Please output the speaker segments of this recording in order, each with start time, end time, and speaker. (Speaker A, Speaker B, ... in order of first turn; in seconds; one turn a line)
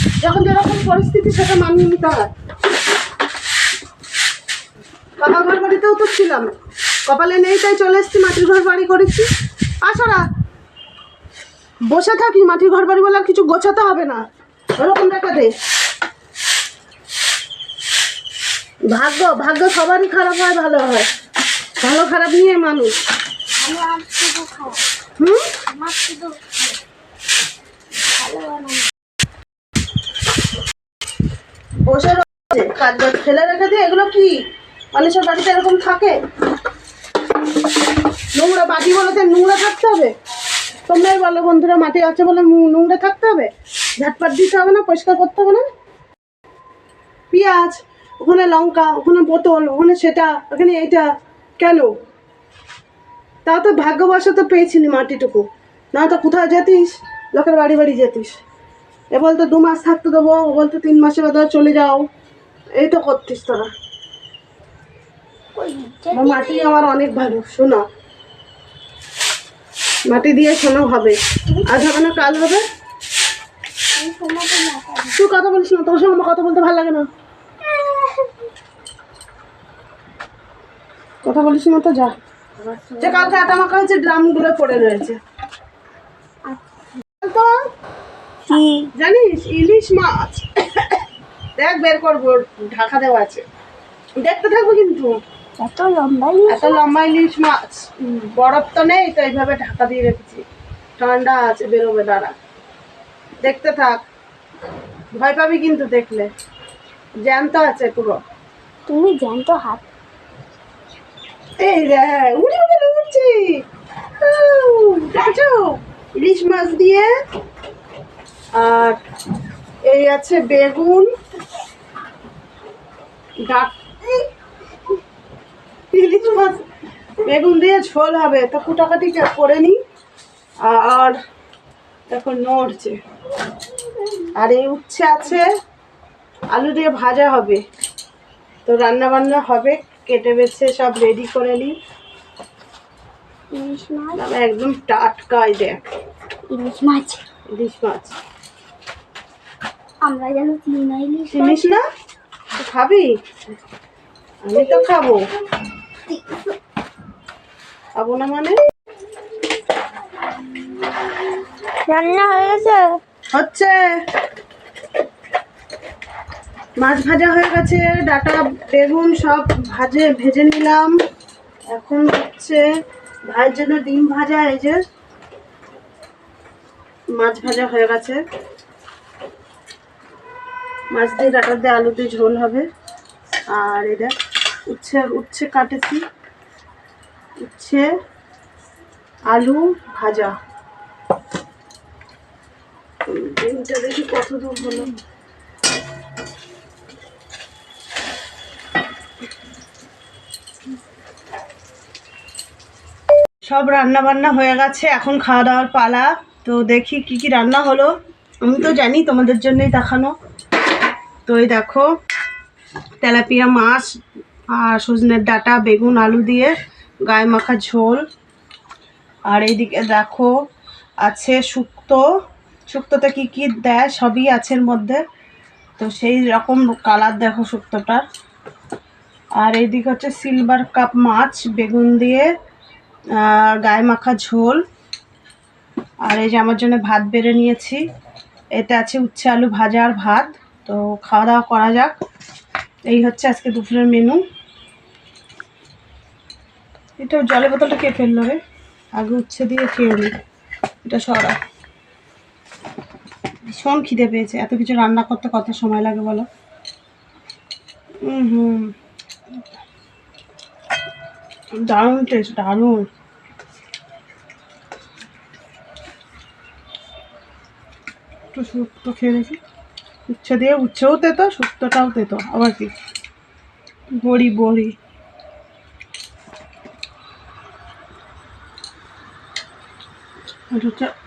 Speaker A: 0.2-2.3
Speaker A: 5.2-6.5
Speaker A: 7.1-9.3
Speaker A: 9.8-10.2
Speaker A: 11.9-14.2
Speaker A: 14.8-15.5
Speaker A: 18.9-21.1
Speaker A: 21.8-22.9
Speaker B: 23.6-24.9
Speaker A: 25.2-25.5
Speaker B: 25.7-26.8
Speaker B: 28.2-28.9
Speaker A: 31.9-34.4
Speaker A: 34.9-36.2
Speaker A: 38.4-40.1
Speaker A: 40.9-45.6
Speaker A: 47.3-51.9
Speaker A: 53.5-58.4
Speaker A: 59.1-62.1
Speaker A: 62.8-63.7
Speaker B: 65.5-66.8
Speaker A: 66.1-67.8
Speaker A: 70.1-72.7
Speaker B: 71.5-72.3
Speaker B: 74.0-75.3
Speaker A: 75.1-77.1
Speaker B: 77.7-78.3
Speaker A: 81.2-82.2
Speaker B: 82.6-83.6
Speaker A: 83.0-85.2
Speaker B: 86.5-86.9
Speaker A: 87.2-87.5
Speaker B: 88.5-88.9
Speaker A: 89.0-91.0
Speaker A: 91.6-93.4
Speaker A: 94.2-95.2
Speaker B: 95.6-96.8
Speaker A: 96.5-100.4
Speaker A: 101.0-102.3
Speaker A: 103.4-104.0
Speaker A: 105.2-106.3
Speaker A: 107.2-108.2
Speaker B: 108.9-109.9
Speaker A: 111.6-113.6
Speaker A: 114.2-117.1
Speaker A: 118.5-119.0
Speaker A: 119.9-121.1
Speaker A: 123.5-124.2
Speaker A: 125.9-126.6
Speaker A: 127.2-129.8
Speaker A: 130.6-131.2
Speaker A: 132.1-133.0
Speaker A: 134.3-135.5
Speaker A: 136.5-137.6
Speaker A: 138.7-141.8
Speaker B: 143.5-144.2
Speaker A: 144.2-145.8
Speaker B: 146.5-147.2
Speaker A: 147.5-148.2
Speaker B: 150.0-151.8
Speaker A: 151.3-151.8
Speaker A: 152.6-153.2
Speaker A: 154.4-155.2
Speaker A: 158.0-158.6
Speaker B: 161.9-163.0
Speaker A: 163.3-163.8
Speaker A: 166.8-170.9
Speaker A: 171.7-172.6
Speaker A: 173.3-174.8
Speaker A: 177.2-178.2
Speaker A: 180.9-182.7
Speaker A: 183.5-184.2
Speaker A: 184.7-186.0
Speaker A: 187.4-187.9
Speaker A: 189.3-190.3
Speaker A: 193.1-195.0
Speaker A: 203.5-210.2
Speaker A: 211.3-211.9
Speaker A: 213.0-213.9
Speaker A: 214.5-218.0
Speaker A: 219.3-220.3
Speaker A: 221.0-222.0
Speaker A: 222.7-225.0
Speaker A: 225.8-228.0
Speaker A: 229.4-232.3
Speaker A: 233.2-234.6
Speaker A: 236.1-237.8
Speaker A: 238.6-241.9
Speaker A: 242.9-244.2
Speaker A: 247.0-248.4
Speaker A: 249.0-250.1
Speaker A: 250.8-251.4
Speaker A: 253.5-256.3
Speaker A: 258.1-258.7
Speaker A: 261.5-262.9
Speaker A: 268.3-269.4
Speaker A: 270.1-272.7
Speaker A: 274.0-274.8
Speaker A: 280.5-280.9